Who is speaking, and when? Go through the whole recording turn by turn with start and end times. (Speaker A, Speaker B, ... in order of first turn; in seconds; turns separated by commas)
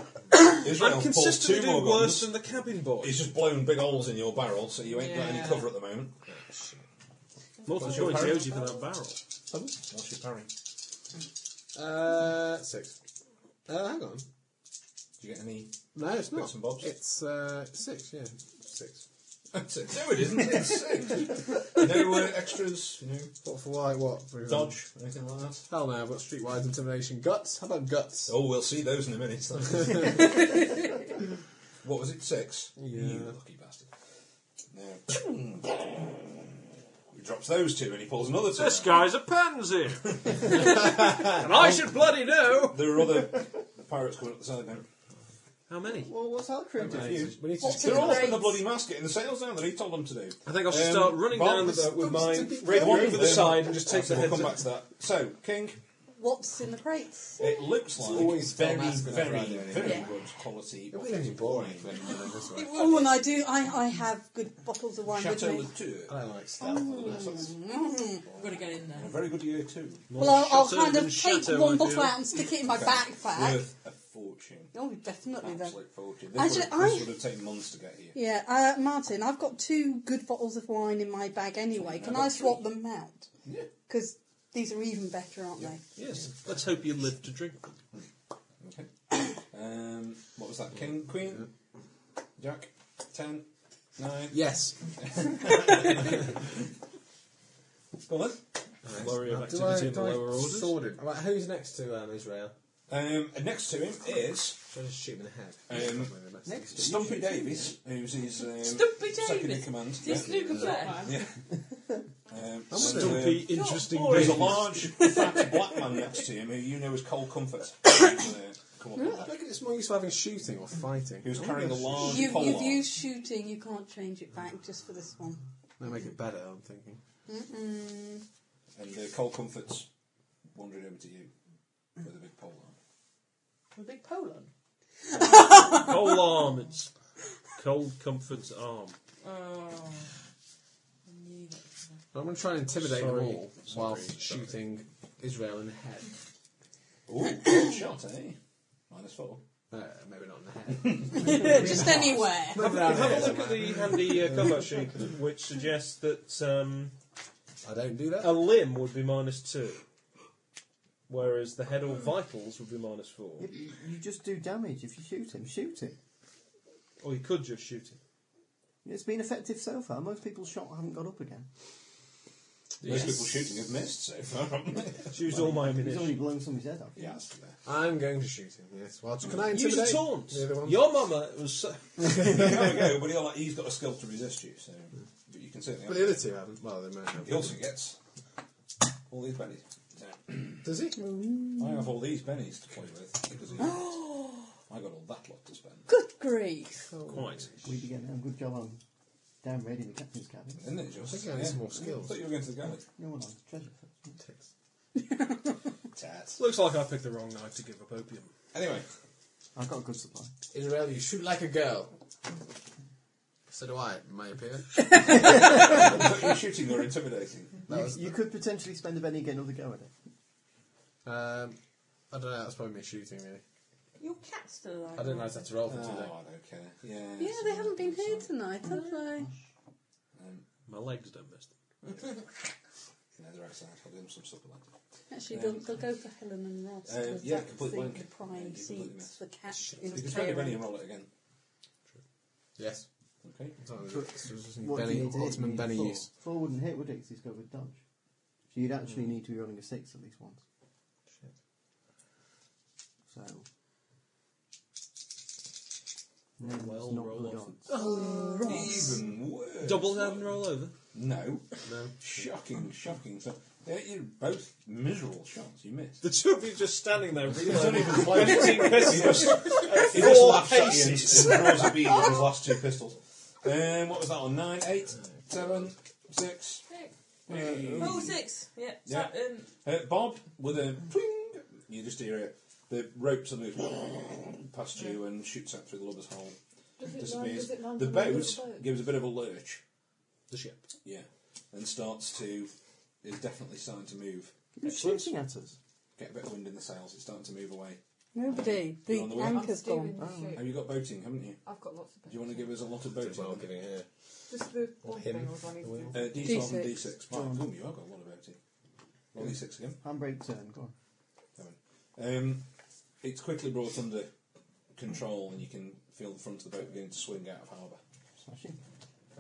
Speaker A: 0.3-2.4, Speaker B: 0.6-3.2, Speaker A: 3.0-6.2, Speaker C: 4.9-5.7, Speaker D: 6.3-6.8, Speaker B: 7.7-9.2, Speaker A: 7.7-8.6, Speaker A: 9.5-10.5, Speaker D: 11.7-13.0, Speaker D: 13.7-14.3, Speaker A: 15.2-16.9, Speaker D: 15.9-19.0, Speaker A: 19.5-23.3, Speaker D: 23.4-24.8, Speaker A: 24.5-25.7, Speaker D: 25.7-28.4, Speaker A: 28.3-30.6, Speaker A: 31.8-33.9, Speaker D: 32.8-33.4, Speaker A: 34.7-36.3, Speaker A: 37.1-39.1, Speaker B: 38.5-43.0, Speaker A: 40.3-40.6, Speaker A: 42.7-44.9, Speaker B: 45.7-46.1, Speaker E: 45.9-47.4, Speaker D: 46.8-48.3, Speaker A: 46.8-51.8, Speaker F: 47.6-48.6, Speaker B: 50.5-54.6, Speaker D: 51.5-54.4, Speaker A: 52.7-55.8, Speaker F: 56.2-57.6, Speaker A: 57.4-62.2, Speaker D: 58.0-60.1, Speaker C: 59.8-60.1, Speaker D: 60.9-62.8, Speaker C: 62.5-63.2, Speaker F: 62.7-65.7, Speaker A: 65.1-66.2, Speaker D: 66.1-67.5, Speaker F: 66.6-68.2, Speaker A: 66.9-67.5, Speaker C: 68.3-69.2, Speaker A: 68.9-70.1, Speaker B: 70.1-72.2, Speaker F: 70.1-73.7, Speaker A: 72.7-74.7, Speaker F: 74.7-75.8, Speaker A: 75.4-78.2, Speaker F: 76.3-77.2, Speaker F: 78.1-83.3, Speaker A: 81.7-82.6, Speaker F: 83.9-85.8, Speaker B: 86.0-87.7, Speaker A: 88.6-91.5, Speaker A: 92.4-93.5, Speaker A: 94.0-94.4, Speaker D: 94.3-94.8, Speaker A: 95.0-96.3, Speaker A: 98.1-98.4, Speaker D: 98.8-102.5, Speaker B: 98.9-100.8, Speaker A: 102.9-104.6, Speaker D: 104.7-106.9, Speaker A: 105.7-106.1, Speaker E: 106.5-107.7, Speaker A: 106.8-111.3, Speaker C: 108.6-111.3, Speaker G: 110.7-111.1, Speaker A: 112.3-113.5, Speaker D: 112.7-113.4, Speaker B: 112.7-114.7, Speaker C: 113.5-115.5, Speaker A: 114.0-119.4, Speaker D: 119.0-122.6, Speaker A: 121.2-122.9, Speaker F: 122.0-125.4, Speaker D: 125.8-127.0, Speaker F: 127.3-128.2, Speaker A: 128.8-129.9, Speaker A: 130.6-131.3, Speaker A: 132.0-132.7, Speaker C: 133.8-134.5, Speaker C: 135.2-135.5, Speaker F: 135.3-135.9, Speaker B: 135.7-136.9, Speaker B: 137.6-139.0, Speaker C: 139.2-140.1, Speaker C: 141.1-142.0, Speaker D: 142.1-146.1, Speaker B: 142.8-144.5, Speaker A: 147.1-148.4, Speaker A: 148.9-149.4, Speaker D: 149.7-154.6, Speaker A: 150.8-151.4, Speaker F: 151.2-152.9, Speaker B: 152.6-156.9, Speaker D: 157.6-158.5, Speaker B: 158.2-159.8, Speaker B: 161.1-163.5, Speaker E: 163.4-166.0, Speaker B: 167.0-168.0, Speaker E: 168.8-171.5, Speaker A: 172.8-175.1, Speaker D: 172.8-173.2, Speaker B: 175.1-176.2, Speaker E: 175.1-177.2, Speaker A: 177.0-177.6, Speaker D: 177.6-180.9, Speaker B: 179.3-182.3, Speaker A: 182.2-186.2, Speaker D: 185.8-187.6, Speaker A: 187.1-188.0, Speaker A: 189.1-190.7, Speaker D: 190.6-191.0, Speaker F: 190.9-192.0, Speaker A: 191.6-194.1, Speaker F: 193.6-194.4, Speaker A: 194.7-195.9, Speaker F: 195.9-196.9, Speaker D: 196.9-197.8, Speaker B: 197.1-197.5, Speaker E: 197.6-198.8, Speaker E: 199.4-200.7, Speaker A: 200.6-202.8, Speaker D: 201.0-202.2, Speaker E: 202.8-204.2, Speaker D: 204.2-204.5, Speaker F: 205.0-205.5, Speaker A: 205.9-206.4, Speaker B: 206.4-208.3, Speaker A: 208.5-208.9, Speaker E: 209.6-210.3, Speaker D: 210.5-211.9, Speaker D: 213.5-215.1, Speaker A: 215.1-217.6, Speaker D: 217.7-218.2, Speaker E: 217.7-219.9, Speaker D: 221.1-221.6, Speaker D: 222.1-223.4, Speaker C: 224.0-225.6, Speaker D: 224.9-226.1, Speaker A: 225.7-228.3, Speaker F: 227.2-229.3, Speaker C: 228.7-229.1, Speaker A: 230.2-230.4, Speaker B: 230.7-231.5, Speaker A: 233.2-234.7, Speaker F: 235.1-240.6, Speaker A: 235.3-235.8, Speaker A: 236.9-239.2, Speaker D: 239.6-239.9, Speaker A: 239.9-241.1, Speaker D: 242.6-242.9, Speaker A: 243.2-243.6, Speaker D: 243.6-246.1, Speaker E: 243.9-247.8, Speaker E: 248.5-250.4, Speaker E: 253.1-253.4, Speaker E: 256.4-257.7, Speaker B: 256.4-257.9, Speaker F: 257.7-259.0, Speaker A: 258.4-260.4, Speaker B: 259.6-260.7, Speaker A: 260.9-261.5, Speaker D: 261.7-261.9, Speaker A: 262.0-266.0, Speaker B: 266.0-271.7, Speaker A: 267.4-276.6, Speaker G: 276.7-276.9, Speaker E: 277.3-278.0, Speaker A: 277.3-278.1, Speaker C: 277.8-279.5, Speaker A: 278.9-289.6, Speaker G: 286.8-288.7, Speaker B: 290.3-290.6, Speaker A: 290.8-292.5, Speaker A: 293.0-294.3, Speaker E: 294.6-295.6, Speaker B: 294.7-295.1, Speaker A: 296.0-299.5, Speaker F: 298.1-300.0, Speaker G: 299.2-300.6, Speaker E: 300.0-300.4, Speaker A: 300.3-301.4, Speaker G: 301.4-302.6, Speaker A: 302.1-303.5, Speaker D: 303.0-303.9, Speaker G: 304.3-306.2, Speaker D: 304.8-306.2, Speaker A: 305.9-308.4, Speaker F: 306.2-306.8, Speaker E: 307.1-307.5, Speaker A: 309.1-309.8, Speaker E: 309.8-310.7, Speaker A: 311.4-312.4, Speaker A: 313.0-314.1, Speaker A: 314.8-317.8, Speaker E: 318.2-318.6